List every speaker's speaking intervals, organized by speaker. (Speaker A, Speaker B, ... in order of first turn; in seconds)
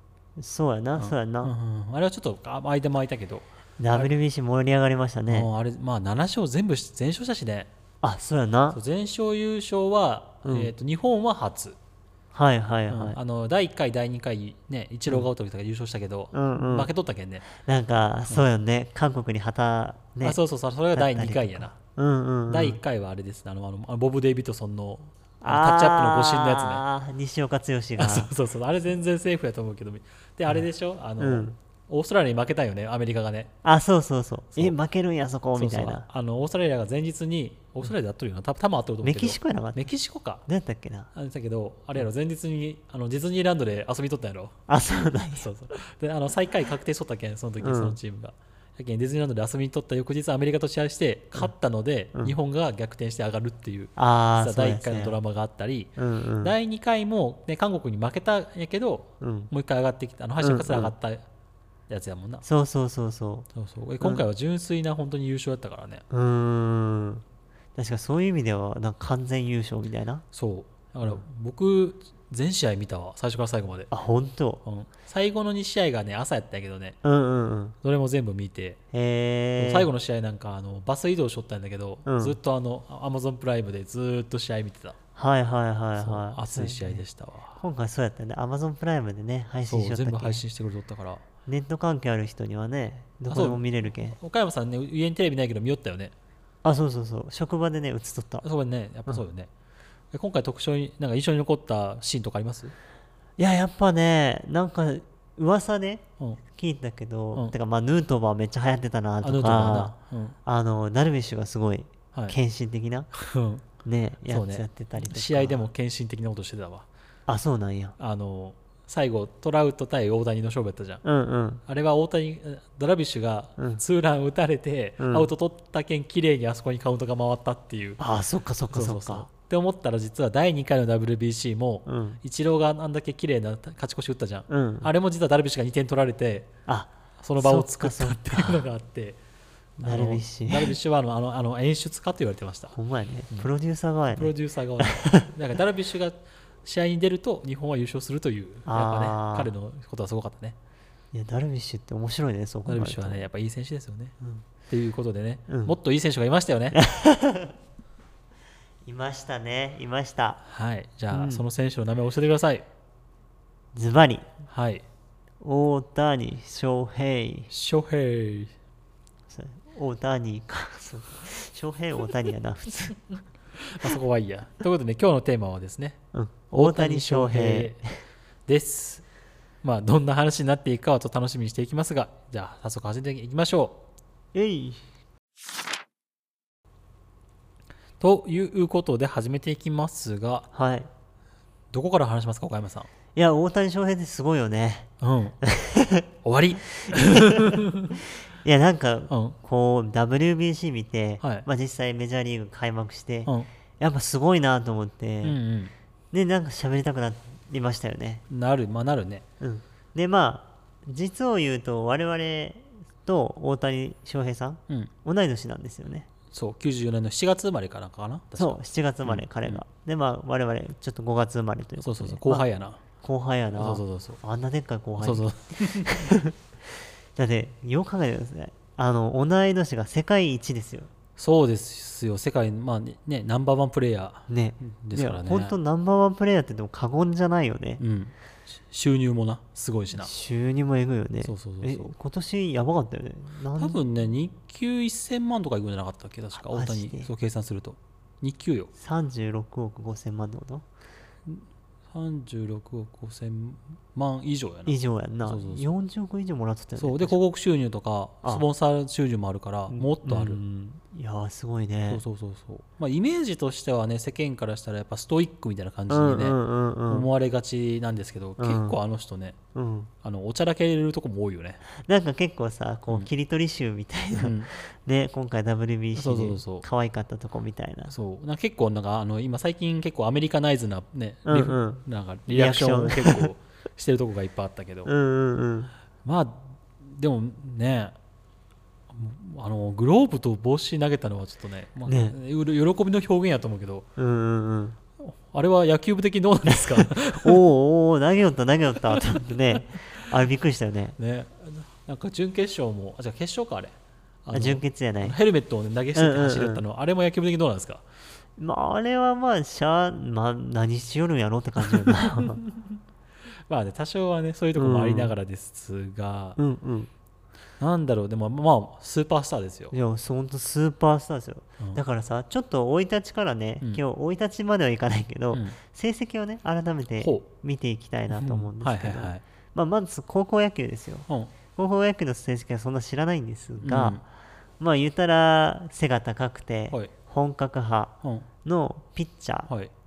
Speaker A: 0.4-1.5, 3.8-5.5, 8.0-8.8, 10.4-10.7, 12.3-13.2, 16.3-16.9, 17.5-20.4, 20.9-22.8, 25.4-28.3, 31.2-31.6, 33.6-36.1, 39.0-39.9, 40.5-41.1, 44.7-45.5, 47.6-48.0, 54.0-55.2, 56.0-56.5, 59.2-59.5, 60.4-60.9, 62.4-63.5, 66.1-67.2, 67.8-70.2, 73.9-74.6, 77.0-77.8, 78.9-79.9, 82.1-82.4, 85.2-87.0, 87.6-90.4, 91.5-94.2, 96.6-98.4, 103.4-113.1, 113.8-115.7, 117.3-118.0, 121.0-121.6, 123.6-123.8, 125.0-125.3, 128.0-129.3, 131.8-132.2, 134.5-134.9, 136.7-138.7, 139.8-140.8, 142.7-145.3, 148.7-149.5, 151.1-153.2, 155.5-155.8, 156.7-157.5, 158.8-160.4, 161.1-161.4, 163.7-164.3, 165.4-167.5, 169.3-173.0, 176.1-178.0, 184.3-184.8, 190.5-190.9, 193.2-194.9, 195.4-196.1, 196.8-197.6, 198.4-205.4, 206.1-208.2, 209.4-216.1, 218.4-222.5, 223.0-230.9, 234.3-237.8, 240.0-243.8, 246.3-247.1, 248.8-250.7, 254.7-257.2, 259.7-262.0, 265.9-267.1, 268.4-268.8, 269.5-269.9, 271.7-277.9, 281.2-283.3, 284.9-285.7, 291.9-292.1, 294.0-294.8, 296.5-301.0, 304.3-305.2, 305.9-306.6, 308.4-312.4, 314.6-315.1, 316.4-316.9, 319.7-334.0, 334.6-339.5
Speaker B: 1.0-4.1, 5.3-7.7, 8.7-11.8, 12.9-17.5, 20.2-21.7, 22.5-26.8, 28.0-33.5, 35.5-40.4, 41.1-44.6, 45.3-61.2, 61.9-62.4, 63.5-66.0, 70.3-73.9, 74.6-77.0, 77.8-78.8, 79.6-85.0, 86.0-87.6, 89.7-91.2, 93.3-96.1, 98.4-99.5, 100.1-102.8, 109.2-110.3, 113.1-113.7, 114.3-116.9, 118.0-121.0, 121.7-128.0, 128.7-136.5, 137.2-139.2, 139.8-142.8, 144.1-150.6, 152.7-154.2, 154.7-156.8, 160.4-162.7, 164.5-164.8, 167.5-168.5, 173.6-176.0, 176.5-177.8, 178.5-179.0, 179.6-183.8, 188.0-190.5, 191.7-192.9, 195.0-195.4, 196.2-198.0, 199.1-199.3, 201.2-201.5, 205.2-205.7, 208.3-209.2, 216.3-219.6, 221.8-222.8, 223.5-224.2, 225.0-226.1, 231.2-235.6, 237.8-238.1, 238.7-240.1, 241.2-241.9, 243.6-248.7, 251.3-255.7, 256.8-260.4, 261.9-266.4, 266.9-269.4, 270.0-271.6, 274.2-274.5, 275.9-276.6, 277.9-284.9, 286.0-287.9, 288.9-293.9, 295.0-297.4, 301.0-307.9, 312.0-312.8, 313.5-316.4, 317.6-319.7, 325.3-325.6, 327.0-327.3, 328.1-329.2, 331.1-331.3, 333.6-334.0